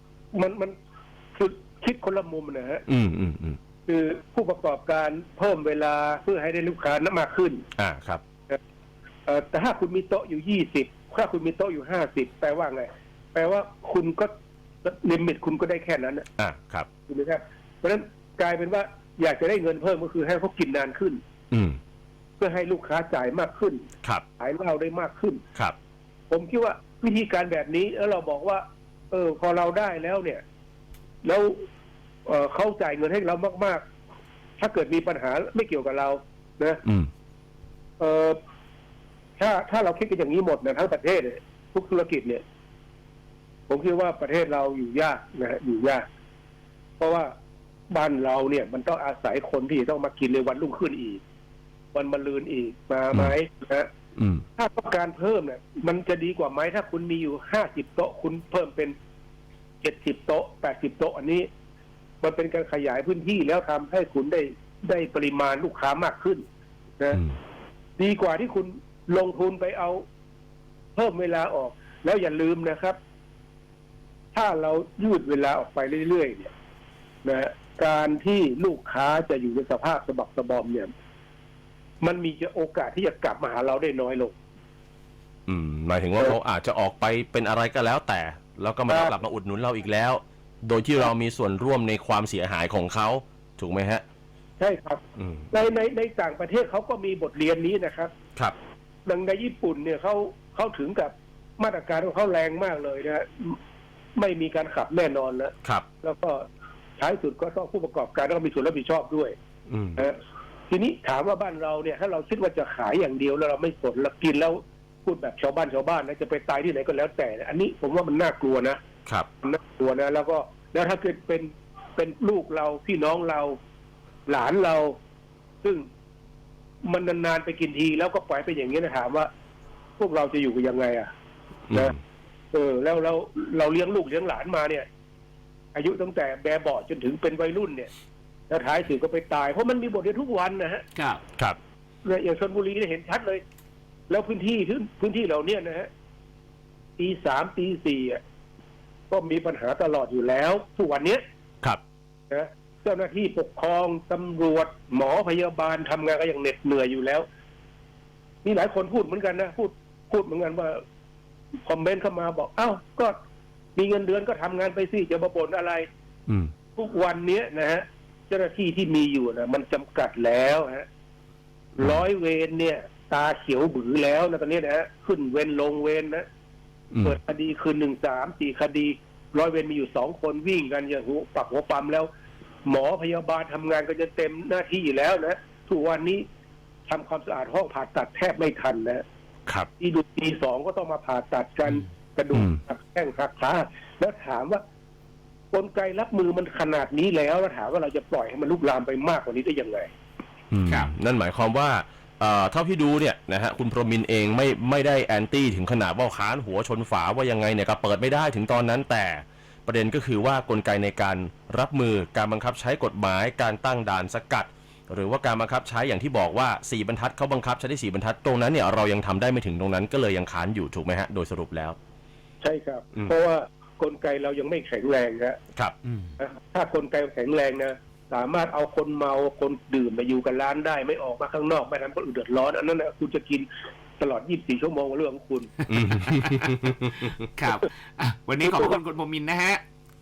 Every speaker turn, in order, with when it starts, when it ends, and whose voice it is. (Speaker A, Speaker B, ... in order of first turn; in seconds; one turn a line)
Speaker A: 0.3-0.8
Speaker A: 1.4-2.8
Speaker B: 2.9-3.6
Speaker A: 3.9-7.7
Speaker B: 7.8-8.2
Speaker A: 9.3-14.3
Speaker A: 14.8-16.3
Speaker B: 16.4-16.9
Speaker A: 17.1-21.2
Speaker B: 21.5-21.8
Speaker A: 22.4-23.9
Speaker A: 24.4-25.4
Speaker A: 26.3-30.4
Speaker A: 31.2-31.6
Speaker A: 32.3-33.8
Speaker A: 34.6-36.8
Speaker B: 36.9-37.1
Speaker A: 38.0-38.4
Speaker A: 39.4-42.4
Speaker A: 43.7-46.0
Speaker A: 47.0-47.3
Speaker A: 47.9-51.2
Speaker A: 51.9-53.9
Speaker B: 54.2-54.5
Speaker A: 54.6-59.0
Speaker A: 59.8-61.5
Speaker A: 62.2-66.4
Speaker A: 68.0-70.0
Speaker A: 71.0-73.0
Speaker A: 74.3-76.5
Speaker A: 77.2-80.9
Speaker A: 82.0-84.3
Speaker B: 85.5-94.0
Speaker A: 94.6-98.1
Speaker B: 95.2-95.5
Speaker A: 99.1-103.6
Speaker A: 104.2-106.5
Speaker A: 107.0-109.3
Speaker B: 109.7-110.0
Speaker A: 110.7-118.8
Speaker A: 119.4-123.6
Speaker A: 124.3-125.0
Speaker A: 126.8-129.3
Speaker A: 130.0-131.1
Speaker A: 132.5-134.9
Speaker A: 135.8-137.9
Speaker A: 138.5-140.8
Speaker C: 141.0-141.2
Speaker A: 142.1-143.4
Speaker A: 144.1-145.9
Speaker A: 147.0-148.2
Speaker A: 149.1-151.2
Speaker A: 152.3-157.2
Speaker A: 158.4-160.8
Speaker A: 161.7-163.2
Speaker A: 163.8-165.9
Speaker A: 166.8-170.9
Speaker A: 171.8-176.2
Speaker B: 176.9-177.2
Speaker A: 177.0-182.1
Speaker A: 182.7-186.2
Speaker A: 186.9-189.0
Speaker A: 189.8-194.6
Speaker B: 192.3-192.6
Speaker A: 195.5-199.9
Speaker B: 200.5-221.8
Speaker C: 200.7-200.9
Speaker A: 222.4-225.4
Speaker A: 226.2-233.5
Speaker A: 234.0-235.6
Speaker B: 235.7-237.2
Speaker C: 237.2-239.6